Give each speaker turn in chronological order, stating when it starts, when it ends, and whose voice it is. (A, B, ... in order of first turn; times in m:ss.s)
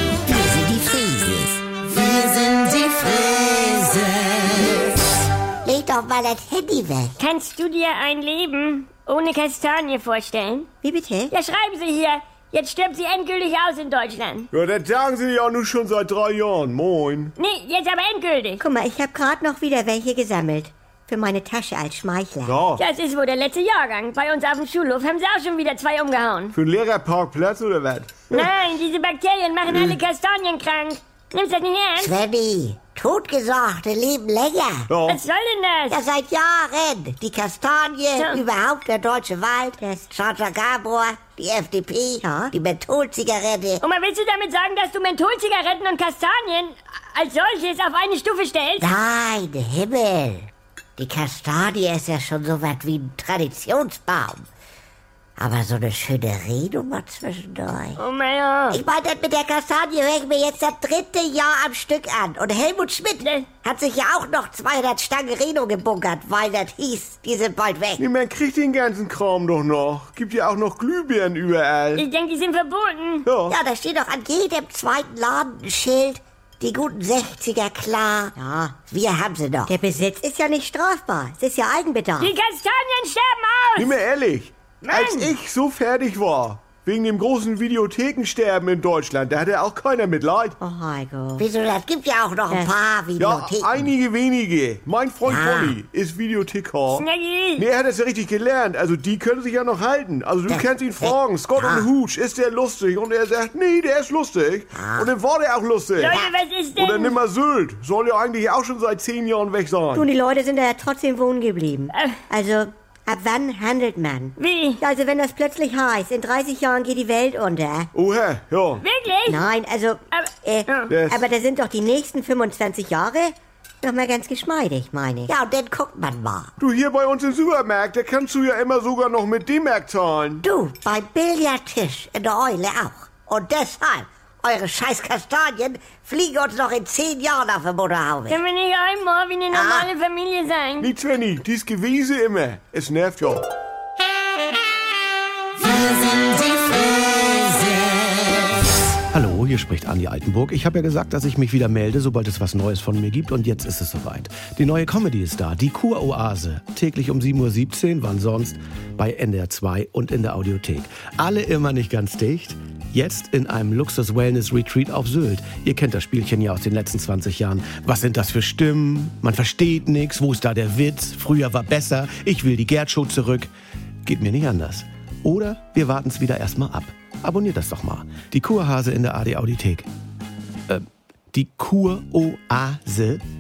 0:00.3-0:04.9 A
0:05.6-0:07.2 A
0:07.2-0:10.7 B
0:10.8-0:11.3 C
0:11.3-0:14.5 B
0:14.5-0:17.3 D
0:17.4-0:18.6 B
0:18.6-0:22.6 C
0:22.4-0:22.8 D
0:22.8-0:26.5 B
0:26.5-0:28.5 D
0:28.3-0:32.1 B
0:29.7-0:30.0 D
0:32.0-0:34.9 A
0:34.9-0:35.2 D
0:35.1-0:36.0 B
0:35.9-0:43.8 A
0:38.2-0:38.4 B
0:39.8-0:40.1 C
0:42.2-0:42.5 C
0:43.8-0:48.9 B
0:48.8-0:54.4 A
0:55.4-0:58.0 A
0:58.0-0:58.8 B
0:58.7-1:08.0 A
1:03.2-1:03.5 B
1:08.0-1:12.1 D
1:12.0-1:13.3 B
1:13.3-1:13.6 D
1:13.5-1:18.3 A
1:18.4-1:18.8 C
1:18.9-1:19.7 A
1:19.7-1:22.3 C
1:22.2-1:24.0 B
1:23.8-1:30.6 D
1:24.8-1:25.3 B
1:30.6-1:31.5 C
1:31.4-1:33.9 A
1:33.2-1:46.2 D
1:35.2-1:35.8 A
1:36.9-1:37.7 B
1:40.5-1:41.9 A
1:44.7-1:45.1 A
1:46.0-1:47.2 B
1:46.8-1:50.1 D
1:49.9-1:57.9 C
1:51.9-1:52.2 B
1:54.4-1:54.8 B
1:57.9-1:58.8 D
1:58.8-1:59.5 B
1:59.3-2:05.3 C
2:00.1-2:00.9 B
2:00.9-2:01.3 D
2:05.3-2:06.5 A
2:06.6-2:10.4 D
2:10.4-2:18.4 A
2:18.3-2:20.9 B
2:19.5-2:19.9 A
2:20.8-2:23.5 D
2:25.7-2:27.6 A
2:29.1-2:53.5 E
2:54.0-2:59.9 E
3:00.7-3:03.2 E